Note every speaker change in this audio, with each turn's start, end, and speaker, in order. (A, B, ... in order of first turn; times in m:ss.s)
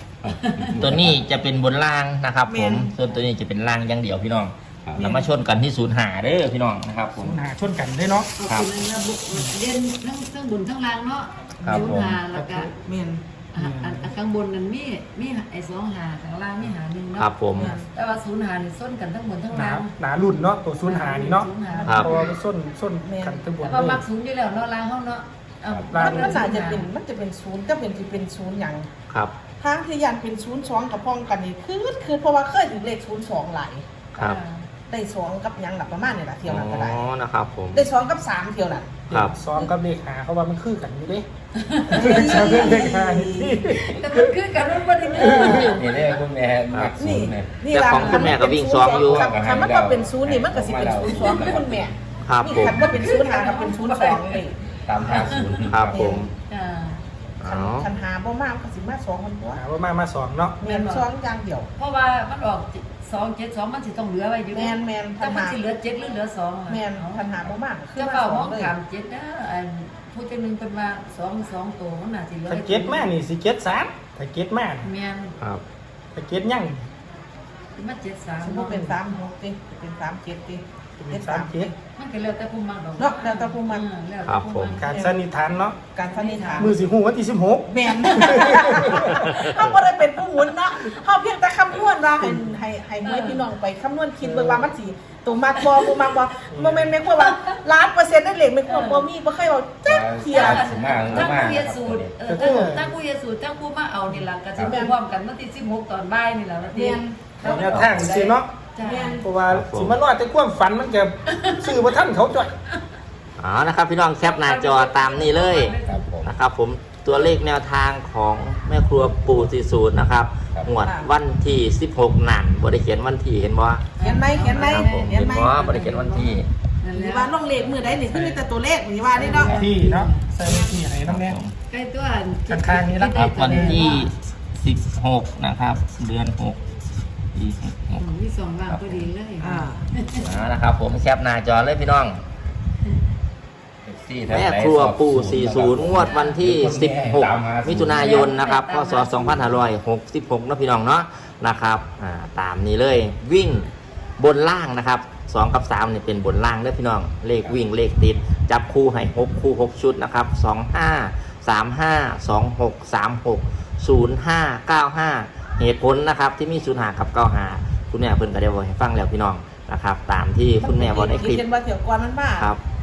0:00.2-0:01.2 A
0:00.3-0:00.8 B
0:00.8-0:07.4 C
0:02.5-0:02.9 D
0:05.0-0:05.3 D
0:07.2-0:08.3 E
0:08.4-0:12.7 B
0:11.6-0:12.2 C
0:11.6-0:12.7 E
0:12.8-0:13.2 D
0:13.5-0:19.9 B
0:13.5-0:14.1 E
0:17.2-0:17.7 C
0:17.5-0:17.9 D
0:19.5-0:24.0 E
0:20.8-0:22.2 B
0:21.7-0:22.4 D
0:23.0-0:23.4 D
0:23.6-0:26.9 B
0:25.7-0:26.1 A
0:25.9-0:26.4 E
0:26.0-0:28.9 D
0:29.1-0:29.3 C
0:29.6-0:33.8 D
0:34.2-0:34.6 B
0:34.9-0:37.0 D
0:36.4-0:37.9 C
0:37.7-0:39.0 D
0:39.1-0:41.3 E
0:41.6-0:42.8 B
0:41.9-0:44.3 E
0:41.9-0:43.7 D
0:43.8-0:46.1 B
0:45.0-0:45.7 E
0:45.2-0:45.6 D
0:45.4-0:51.9 A
0:46.7-0:47.0 C
0:47.0-0:54.6 D
0:47.7-0:49.2 C
0:51.1-0:51.5 B
0:52.2-0:52.9 C
0:52.8-0:54.4 B
0:54.8-0:56.2 A
0:55.0-0:55.6 B
0:55.7-0:56.3 C
0:55.9-0:56.3 D
0:56.5-0:57.0 B
0:57.4-0:57.9 C
0:57.4-0:59.6 D
0:59.6-1:00.7 E
1:00.6-1:01.7 D
1:00.6-1:01.0 B
1:01.8-1:07.4 B
1:04.5-1:05.6 D
1:06.7-1:08.7 D
1:08.0-1:13.1 B
1:12.5-1:14.9 E
1:14.8-1:15.3 B
1:16.1-1:16.9 E
1:17.8-1:19.0 B
1:18.4-1:21.7 D
1:21.0-1:21.7 E
1:22.0-1:25.2 B
1:23.0-1:23.8 D
1:24.2-1:24.8 C
1:24.8-1:25.8 E
1:25.9-1:26.7 D
1:26.1-1:26.7 B
1:26.6-1:29.4 E
1:27.7-1:41.3 D
1:28.0-1:28.5 B
1:29.3-1:29.5 C
1:33.0-1:33.5 B
1:34.2-1:34.7 E
1:35.5-1:35.9 B
1:36.5-1:36.9 E
1:37.2-1:37.6 B
1:38.6-1:39.1 B
1:39.8-1:42.1 A
1:40.3-1:49.2 B
1:42.2-1:42.9 E
1:44.5-1:44.9 D
1:46.7-1:47.6 D
1:47.4-1:48.5 E
1:47.6-1:48.1 A
1:48.8-1:49.2 D
1:49.2-1:52.5 E
1:49.5-1:50.0 C
1:51.3-1:51.9 B
1:53.4-2:03.9 C
1:54.2-1:56.1 B
1:55.8-1:56.3 A
2:00.8-2:01.1 D
2:04.0-2:07.4 B
2:04.0-2:05.7 D
2:04.5-2:06.5 C
2:06.9-2:09.6 D
2:09.1-2:10.7 B
2:09.3-2:11.4 E
2:11.0-2:11.5 C
2:11.7-2:14.1 B
2:12.5-2:13.9 E
2:13.2-2:16.6 C
2:17.3-2:18.0 C
2:18.0-2:20.3 B
2:18.7-2:19.1 C
2:19.4-2:19.8 D
2:20.2-2:22.2 C
2:23.8-2:28.3 A
2:24.3-2:51.4 C
2:25.9-2:26.4 B
2:27.8-2:29.6 B
2:50.6-2:52.5 D